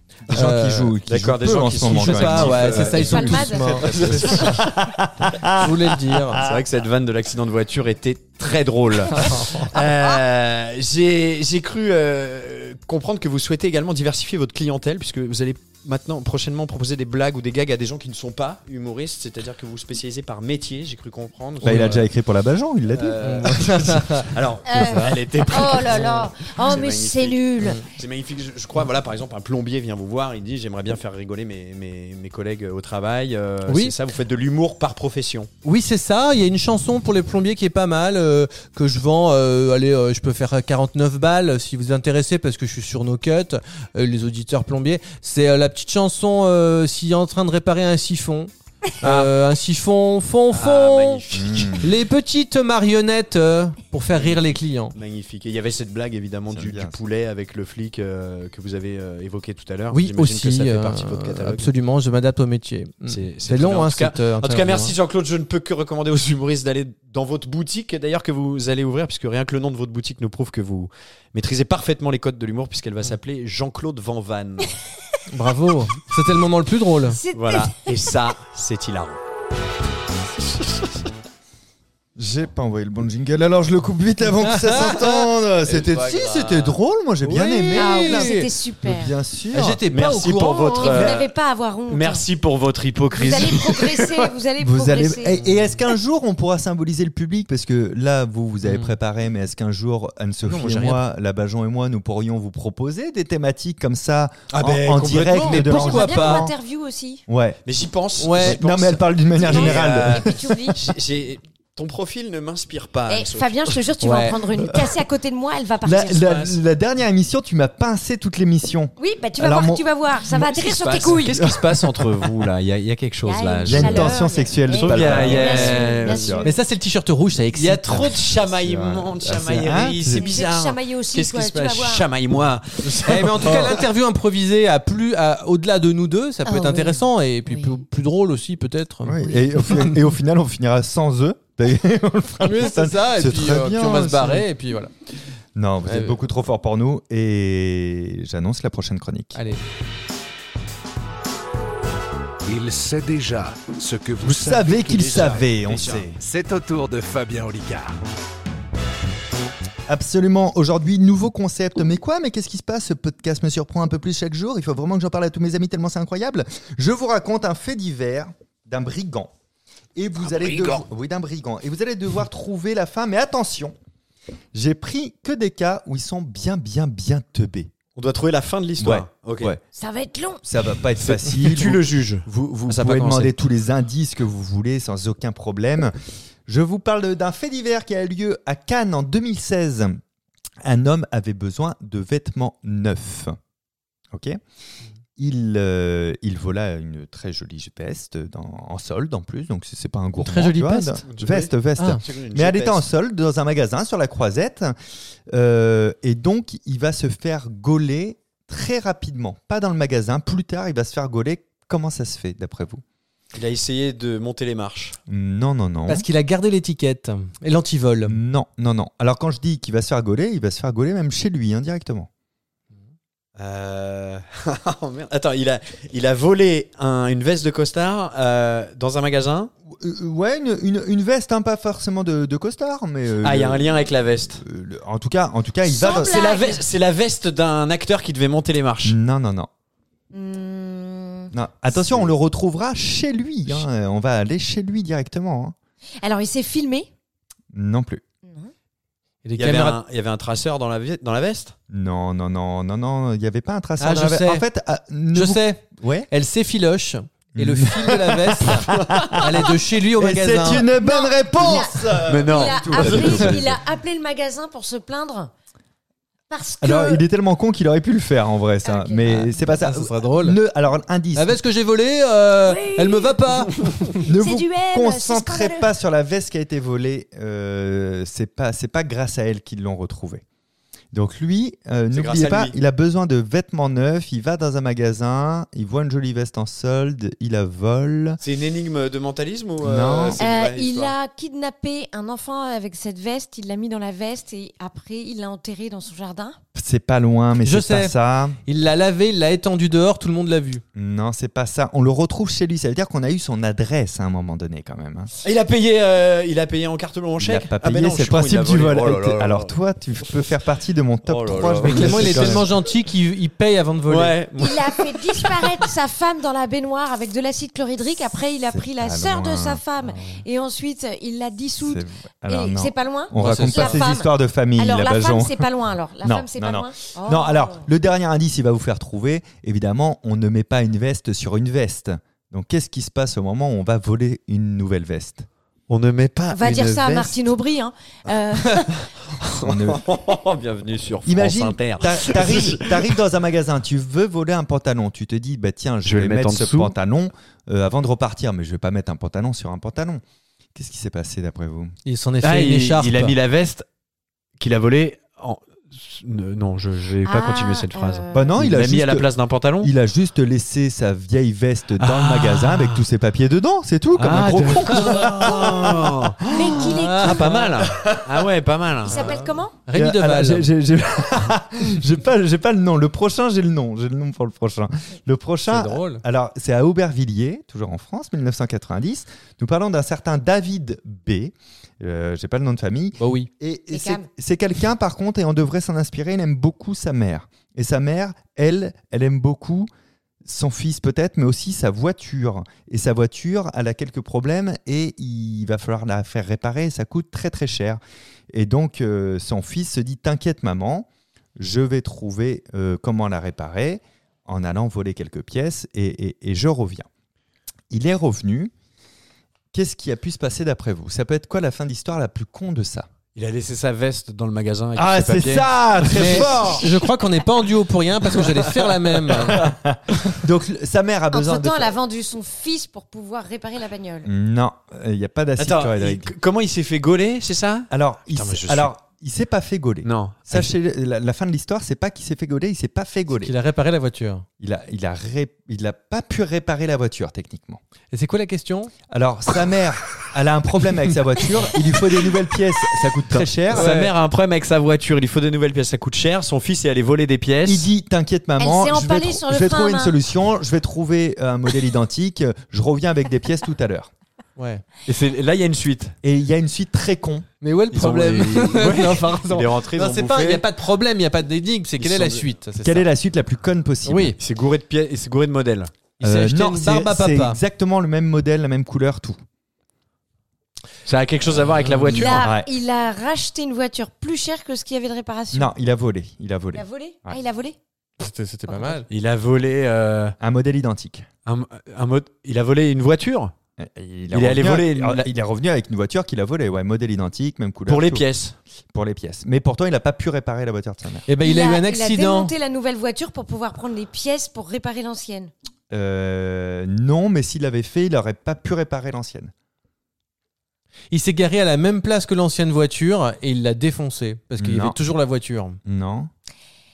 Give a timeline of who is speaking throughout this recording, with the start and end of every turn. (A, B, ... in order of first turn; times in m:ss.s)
0:00.3-0:06.6 A
0:00.3-0:01.0 B
0:01.1-0:04.8 C
0:01.7-0:04.6 B
0:02.7-0:04.5 D
0:05.4-0:06.4 B
0:06.4-0:22.0 C
0:09.1-0:09.7 B
0:21.6-0:22.0 B
0:21.6-0:23.7 A
0:22.9-0:35.5 C
0:23.2-0:25.2 B
0:24.7-0:27.8 D
0:33.7-0:33.9 B
0:35.6-0:51.2 B
0:49.0-0:49.3 C
0:50.5-0:51.9 C
0:51.3-0:51.9 A
0:51.8-0:55.0 B
0:54.1-0:54.4 C
0:55.0-1:01.7 C
0:56.5-0:57.0 A
0:59.9-1:05.0 B
1:03.1-1:14.8 C
1:15.3-1:17.2 B
1:17.1-1:17.9 D
1:17.4-1:19.2 C
1:22.2-1:29.8 A
1:24.4-1:28.5 B
1:27.7-1:29.2 D
1:29.5-1:31.1 B
1:29.9-1:31.3 C
1:30.8-1:32.2 D
1:31.9-1:34.3 C
1:33.2-1:35.4 D
1:34.6-1:46.6 A
1:35.4-1:35.7 B
1:38.6-1:38.9 B
1:40.4-1:41.0 B
1:44.5-1:45.7 C
1:45.4-1:46.5 B
1:45.5-1:47.2 D
1:47.3-1:47.6 A
1:47.7-1:53.9 C
1:48.2-1:48.6 B
1:48.4-1:50.8 A
1:49.4-1:50.8 D
1:53.1-1:56.3 D
1:54.0-1:54.4 B
1:55.8-2:00.5 A
1:56.1-1:56.6 C
1:59.0-2:01.4 D
2:00.3-2:06.4 C
2:01.3-2:02.0 A
2:03.2-2:06.6 D
2:03.7-2:06.5 A
2:06.4-2:08.2 B
2:07.6-2:10.3 A
2:07.6-2:13.8 C
2:09.4-2:09.9 B
2:10.2-2:12.1 D
2:13.0-2:20.0 B
2:16.5-2:17.8 D
2:19.0-2:24.5 A
2:22.4-2:24.9 B
2:25.6-2:29.4 A
2:25.9-2:26.2 B
2:29.4-2:29.6 B
2:32.4-2:35.6 E
2:34.2-2:36.2 A
2:34.9-2:36.1 C
2:36.2-2:38.0 E
2:39.9-2:49.3 A
2:50.0-2:53.8 A
2:50.3-2:50.8 E
2:54.5-2:57.7 A
2:58.0-2:59.6 C
2:58.8-2:59.6 A
2:59.7-3:00.4 D
3:00.4-3:01.8 A
3:01.0-3:03.4 C
3:02.7-3:05.9 A
3:06.5-3:10.0 A
3:10.6-3:13.4 A
3:14.1-3:14.4 A
3:15.2-3:24.8 A
3:20.2-3:21.0 B
3:21.1-3:22.8 C
3:25.3-3:32.8 A
3:33.3-3:35.0 C
3:35.1-3:36.1 A
3:35.9-3:38.2 B
3:38.1-3:42.1 A
3:43.4-3:49.5 C
3:49.7-3:56.3 A
3:53.2-3:54.4 C
3:55.6-3:56.6 D
3:55.8-3:59.0 C
3:58.8-3:59.5 A
4:00.1-4:01.3 D
4:01.3-4:05.6 A
4:01.7-4:02.1 C
4:06.0-4:06.9 D
4:07.5-4:08.0 A
4:08.2-4:08.5 D
4:09.2-4:09.8 B
4:09.4-4:11.6 C
4:11.7-4:16.1 A
4:13.8-4:14.4 B
4:15.1-4:20.7 B
4:17.4-4:23.6 A
4:20.8-4:25.3 D
4:22.1-4:23.5 C
4:26.3-4:27.0 D
4:26.6-4:31.4 A
4:28.6-4:29.3 D
4:29.1-4:30.4 B
4:31.2-4:34.0 B
4:32.4-4:35.7 D
4:34.1-4:40.2 A
4:40.9-4:48.2 A
4:41.9-4:42.6 C
4:48.2-4:51.0 C
4:49.6-4:50.2 A
4:50.2-4:56.4 D
4:56.6-4:58.4 A
4:57.4-4:57.9 B
4:58.5-5:00.6 B
5:00.8-5:05.1 A
5:05.2-5:09.5 C
5:07.2-5:12.5 A
5:11.0-5:12.5 C
5:11.7-5:14.2 B
5:13.9-5:15.7 C
5:14.4-5:27.7 D
5:18.5-5:19.6 A
5:19.8-5:20.2 C
5:21.6-5:25.5 A
5:23.2-5:23.9 B
5:26.0-5:35.3 A
5:35.7-5:37.1 C
5:36.3-5:38.9 D
5:36.7-5:37.1 A
5:38.5-5:43.0 C
5:39.4-5:40.0 A
5:41.1-5:50.0 A
5:45.8-5:46.7 C
5:50.6-5:51.7 A
5:51.9-5:53.1 B
5:52.2-5:53.6 C
5:54.4-5:59.7 C
5:57.0-5:58.4 D
5:58.1-5:59.1 A
5:59.6-6:06.7 A
6:01.8-6:02.8 C
6:04.0-6:09.2 C
6:06.2-6:07.4 D
6:06.7-6:07.5 B
6:07.6-6:08.3 A
6:08.9-6:09.6 D
6:08.9-6:10.5 B
6:09.7-6:29.7 A
6:15.5-6:16.0 B
6:23.0-6:23.3 B
6:23.7-6:24.1 D
6:30.2-6:37.8 A
6:38.3-6:46.9 A
6:47.7-6:48.5 A
6:49.5-6:52.9 A
6:53.2-6:56.7 C
6:54.8-6:56.8 A
6:55.9-6:59.4 B
6:59.3-7:01.8 A
7:01.1-7:04.1 D
7:04.0-7:06.1 A
7:05.4-7:08.7 C
7:07.7-7:13.3 A
7:09.8-7:10.5 C
7:13.2-7:14.3 B
7:14.4-7:17.6 A
7:17.9-7:18.7 B
7:18.9-7:23.7 A
7:23.5-7:23.9 B
7:23.5-7:27.7 C
7:27.4-7:33.9 A
7:28.4-7:30.0 D
7:34.4-7:34.6 B
7:34.9-7:36.0 C
7:36.0-7:37.3 A
7:37.4-7:42.9 B
7:37.7-7:40.4 C
7:41.8-7:42.3 C
7:42.6-7:44.2 A
7:43.8-7:44.2 B
7:44.2-7:45.7 C
7:46.0-7:47.4 B
7:46.0-7:49.2 A
7:50.8-7:52.3 C
7:51.6-7:52.1 B
7:51.9-7:55.5 D
7:52.2-7:52.5 A
7:55.3-7:57.2 A
7:56.5-7:57.6 D
7:58.0-7:58.9 B
7:58.5-7:58.8 D
7:58.9-8:00.2 C
8:00.2-8:01.1 A
8:01.3-8:03.3 C
8:03.6-8:08.1 A
8:04.1-8:05.1 C
8:07.7-8:08.4 C
8:08.7-8:11.1 A
8:11.1-8:12.3 B
8:11.2-8:15.3 D
8:15.7-8:19.3 A
8:20.9-8:25.6 B
8:24.4-8:24.8 A
8:25.6-8:26.1 A